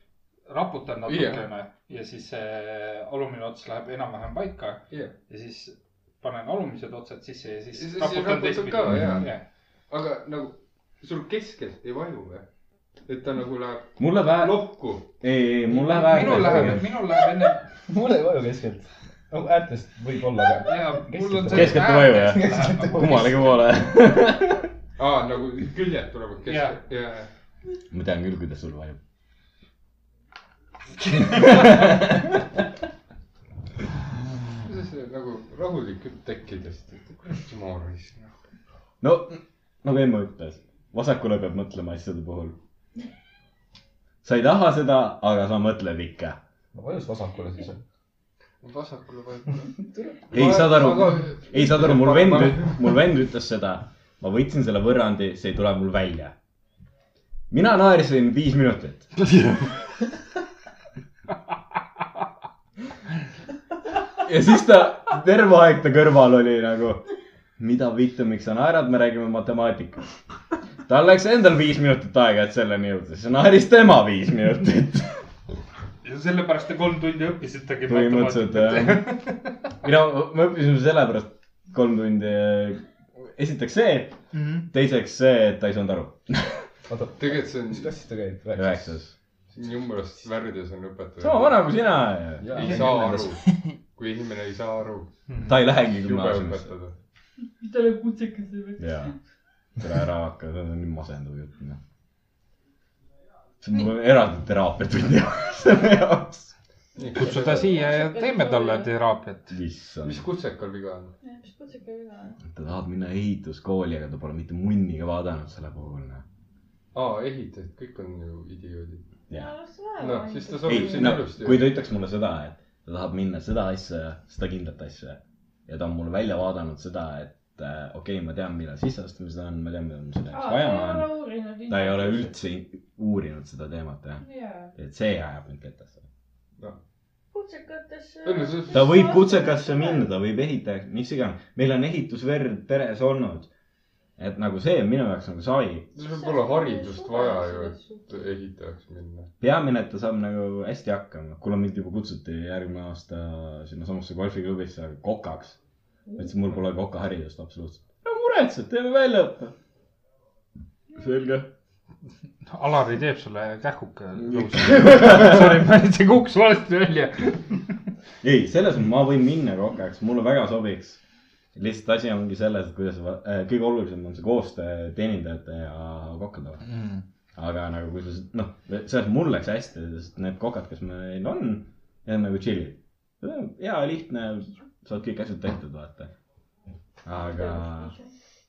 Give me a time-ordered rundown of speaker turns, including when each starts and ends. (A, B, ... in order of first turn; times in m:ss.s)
0:00.5-0:09.4 A
0:01.0-0:01.5 B
0:07.7-0:12.5 B
0:13.0-0:15.1 B
0:14.0-0:17.0 C
0:15.9-0:17.7 A
0:16.1-0:16.7 B
0:17.9-0:23.1 D
0:20.6-0:23.7 A
0:21.5-0:24.7 C
0:25.0-0:27.3 B
0:26.5-0:26.8 A
0:27.9-0:29.0 C
0:31.1-0:32.3 C
0:34.6-0:38.3 B
0:39.0-0:42.6 C
0:44.2-0:46.4 C
0:46.7-0:47.8 D
0:48.6-0:52.8 B
0:50.3-0:56.3 C
0:57.5-0:59.2 C
1:04.2-1:07.0 C
1:07.6-1:10.0 C
1:10.9-1:15.2 C
1:16.0-1:19.6 A
1:17.9-1:19.2 C
1:19.8-1:26.5 C
1:24.3-1:24.6 A
1:26.8-1:28.9 D
1:27.2-1:27.9 B
1:28.5-1:29.2 C
1:29.5-1:31.8 B
1:31.2-1:33.4 C
1:32.4-1:35.1 B
1:35.5-1:36.7 C
1:35.7-1:36.9 B
1:37.6-1:39.1 E
1:38.8-1:39.1 C
1:39.8-1:41.8 C
1:43.6-1:46.5 C
1:47.0-1:47.8 B
1:47.2-1:49.6 A
1:47.2-1:48.9 F
1:49.5-1:50.2 C
1:50.0-1:51.1 B
1:51.2-1:52.4 F
1:52.5-1:56.2 C
1:56.9-1:59.0 B
1:59.3-2:01.2 F
2:00.0-2:01.8 B
2:00.6-2:11.2 C
2:10.3-2:12.3 E
2:11.7-2:16.0 C
2:14.2-2:14.7 E
2:17.3-2:20.1 F
2:18.2-2:19.1 B
2:18.7-2:23.5 C
2:24.2-2:25.9 C
2:25.9-2:29.3 B
2:26.0-2:28.0 F
2:29.4-2:35.6 C
2:36.2-2:39.5 C
2:40.9-2:41.5 C
2:42.4-2:47.6 A
2:44.2-2:45.6 C
2:48.2-2:51.0 C
2:51.5-2:56.6 C
2:56.7-2:57.0 A
2:57.3-3:06.1 C
3:07.0-3:07.9 C